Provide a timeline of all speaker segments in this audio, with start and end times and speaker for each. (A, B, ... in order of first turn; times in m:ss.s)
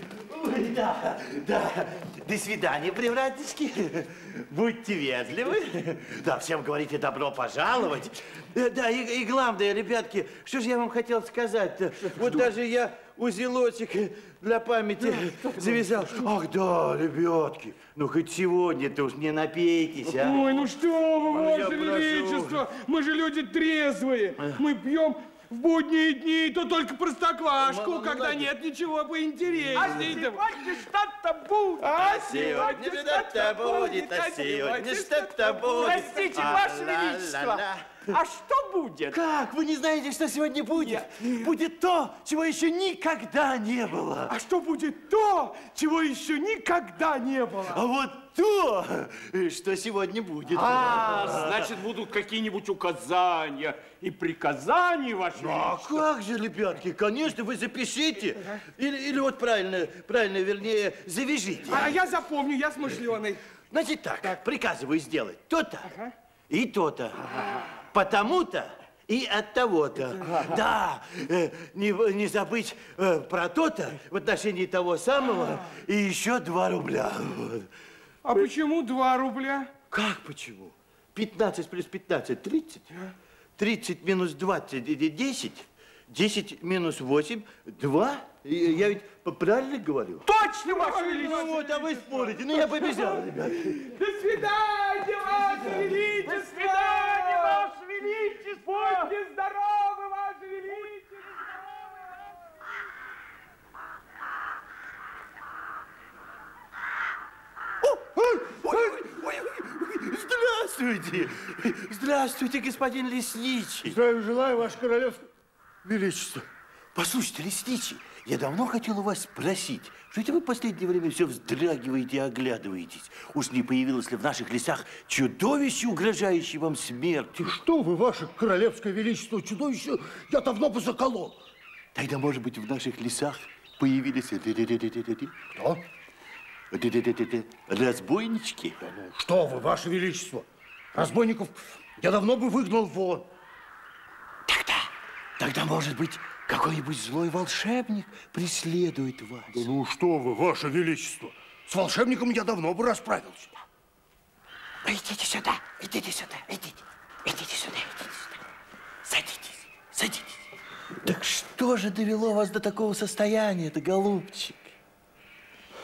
0:00.2-0:20.6 A
0:12.0-0:12.4 B
0:15.0-0:16.2 B
0:20.2-0:30.8 C
0:21.2-0:22.6 A
0:27.6-0:28.5 A
0:29.7-0:39.2 B
0:31.8-0:36.5 C
0:32.0-0:38.0 A
0:39.1-0:44.3 A
0:44.3-0:47.8 C
0:47.6-0:51.8 A
0:50.5-0:56.1 B
0:55.3-1:01.9 A
1:01.7-1:03.4 C
1:03.7-1:05.9 A
1:06.5-1:17.7 A
1:18.2-1:19.7 C
1:19.9-1:22.9 A
1:23.6-1:30.3 A
1:30.3-1:37.8 C
1:30.6-1:31.3 B
1:30.8-1:33.8 A
1:35.2-1:36.0 A
1:36.2-1:39.1 B
1:38.5-1:41.5 C
1:47.8-1:54.0 A
1:53.8-1:55.3 D
1:55.8-1:56.5 D
1:56.9-2:07.6 A
2:07.4-2:11.4 D
2:11.9-2:15.3 A
2:15.5-2:15.8 D
2:16.7-2:18.8 A
2:18.8-2:23.3 D
2:24.5-2:29.6 A
2:29.5-2:33.5 D
2:34.8-2:38.3 A
2:39.0-2:40.4 A
2:41.0-2:44.7 A